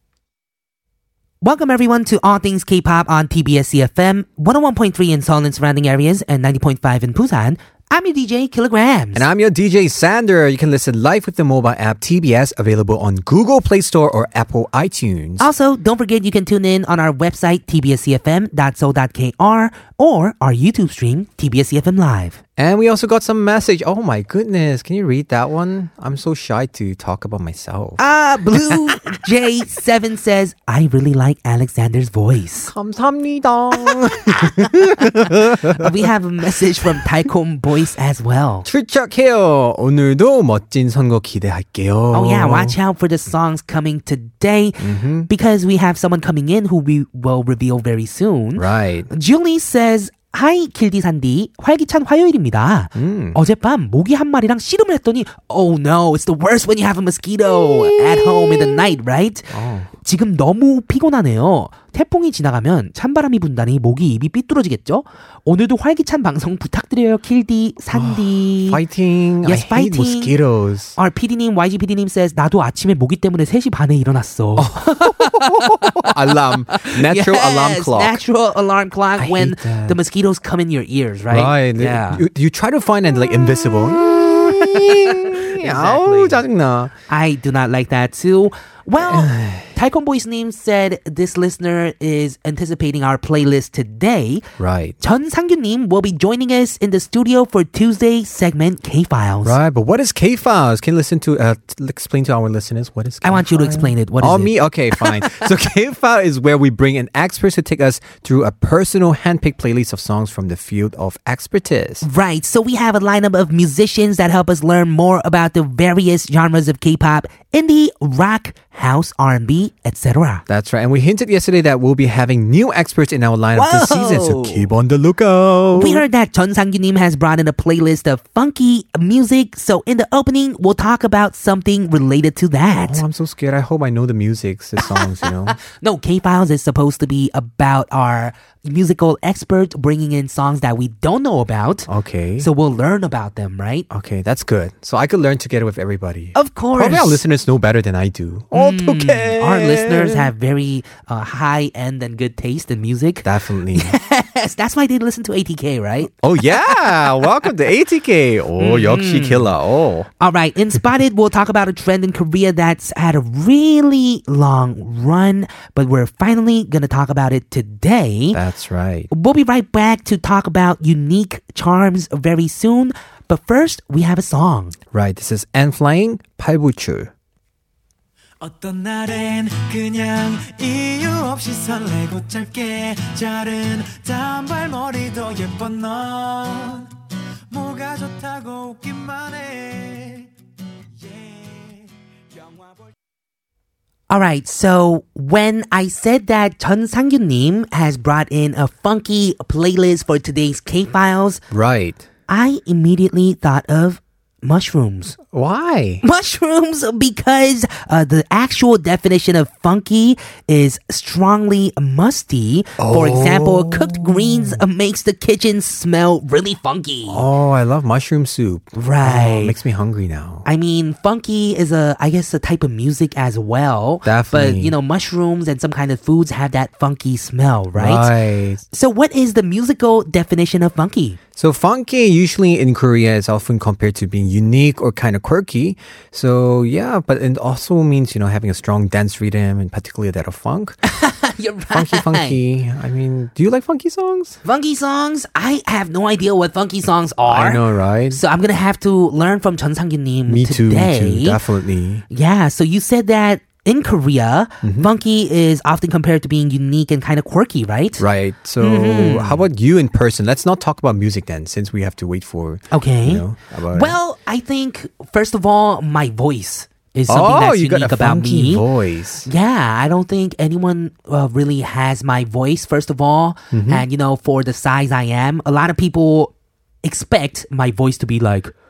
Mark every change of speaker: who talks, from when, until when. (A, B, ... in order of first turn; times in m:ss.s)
0:01.4-0:09.2 A
0:09.1-0:15.5 B
0:15.4-0:22.4 A
0:22.6-0:28.0 B
0:28.0-0:32.7 A
0:32.6-0:35.9 B
0:33.8-0:38.7 A
0:38.6-0:42.8 B
0:42.1-1:08.8 A
0:44.8-0:45.3 B
0:48.6-0:49.1 B
0:53.0-0:53.4 B
0:59.5-0:59.9 B
1:07.9-1:11.0 B
1:09.4-1:10.3 A
1:11.0-1:16.1 A
1:14.6-1:18.2 B
1:16.7-1:22.2 A
1:19.2-1:20.0 B
1:21.3-1:26.9 B
1:24.6-1:26.4 A
1:27.1-1:34.4 A
1:29.0-1:29.7 B
1:34.6-1:35.0 B
1:35.0-1:39.6 A
1:39.4-1:52.0 B
1:43.2-1:45.5 A
1:52.0-2:00.4 A
2:00.5-2:06.0 B
2:03.6-2:04.7 A
2:05.7-2:13.0 A
2:12.8-2:15.6 B
2:14.8-2:23.9 A
2:21.9-2:22.5 B
2:23.9-2:30.3 B
2:26.3-2:27.2 A
2:28.5-2:37.3 A
2:33.2-2:33.9 B
2:36.2-2:40.1 B
2:38.6-2:39.5 A
2:40.2-2:48.4 A
2:48.3-2:49.1 B
2:49.1-2:54.8 A
2:54.9-2:57.1 B
2:58.4-3:06.9 C
3:07.5-3:10.3 C
3:11.0-3:12.9 C
3:14.1-3:21.4 A
3:21.5-3:22.0 B
3:22.3-3:25.2 A
3:25.3-3:26.0 B
3:26.0-3:37.2 A
3:32.8-3:34.6 B
3:37.1-3:40.4 B
3:38.7-3:39.5 A
3:40.4-3:48.1 A
3:44.0-3:44.7 B
3:47.7-3:48.6 B
3:48.7-3:51.2 A
3:51.4-4:00.8 B
4:00.8-4:02.4 A
4:01.7-4:04.4 B
4:04.4-4:11.4 A
4:07.3-4:08.2 B
4:10.3-4:12.0 B
4:12.1-4:18.0 A
4:14.6-4:14.9 B
4:18.0-4:24.0 B
4:18.6-4:19.4 A
4:22.7-4:28.7 A
4:27.1-4:29.3 B
4:29.2-4:36.3 A
4:33.5-4:33.8 B
4:36.8-4:38.5 A